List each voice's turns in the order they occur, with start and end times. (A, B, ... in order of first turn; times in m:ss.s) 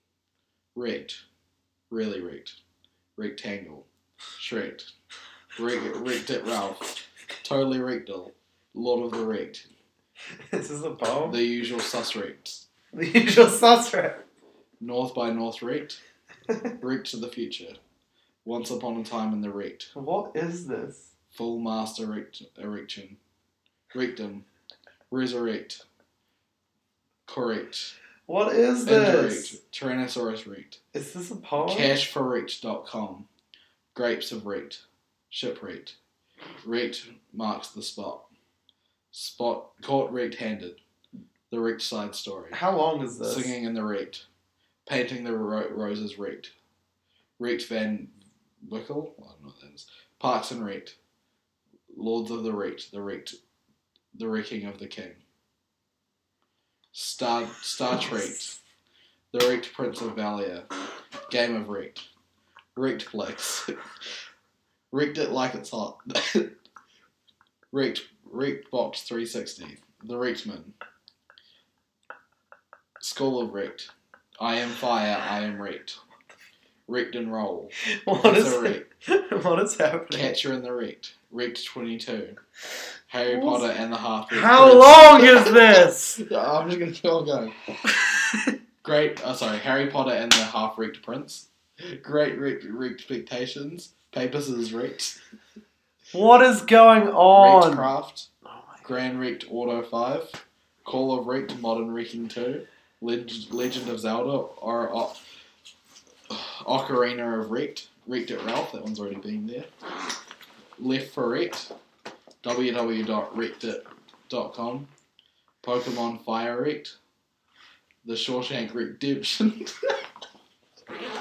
0:00.7-0:01.2 A
0:01.9-0:02.6 A
0:03.2-0:04.9 A
0:05.6-0:06.9 A
0:07.4-0:09.7 A
0:10.5-0:11.4 B
0:11.2-0:12.7 A
0:12.9-0:14.2 B
0:14.8-0:16.0 A
0:16.8-0:17.8 A
0:18.4-0:19.9 A
0:19.9-0:21.1 B
0:21.3-0:23.2 A
0:23.9-0:24.4 A
0:25.1-0:25.8 A
0:27.3-0:27.9 A
0:28.3-0:29.6 B
0:28.8-0:30.8 A
0:30.9-0:31.9 B
0:31.6-0:33.3 A
0:33.9-0:36.0 A
0:36.6-0:38.3 A
0:39.1-0:40.8 A
0:41.5-0:42.6 A
0:42.5-0:43.5 B
0:43.2-0:44.2 A
0:44.8-0:46.5 A
0:47.4-0:51.0 A
0:51.9-0:53.4 A
0:54.1-0:55.2 A
0:56.9-0:58.6 A
0:59.3-1:00.7 A
1:01.3-1:02.0 A
1:02.7-1:03.7 A
1:04.9-1:06.6 A
1:07.7-1:10.7 A
1:13.0-1:16.0 A
1:16.9-1:18.8 A
1:18.0-1:20.4 B
1:20.1-1:22.4 A
1:23.1-1:27.5 A
1:23.3-1:23.6 B
1:24.3-1:26.2 B
1:28.8-1:35.2 A
1:36.1-1:37.9 B
1:37.3-1:38.3 A
1:38.4-1:38.8 B
1:38.8-1:45.2 A
1:46.3-1:49.7 A
1:50.8-1:51.7 A
1:52.4-1:54.9 A
1:55.6-1:57.0 A
1:58.0-2:00.0 A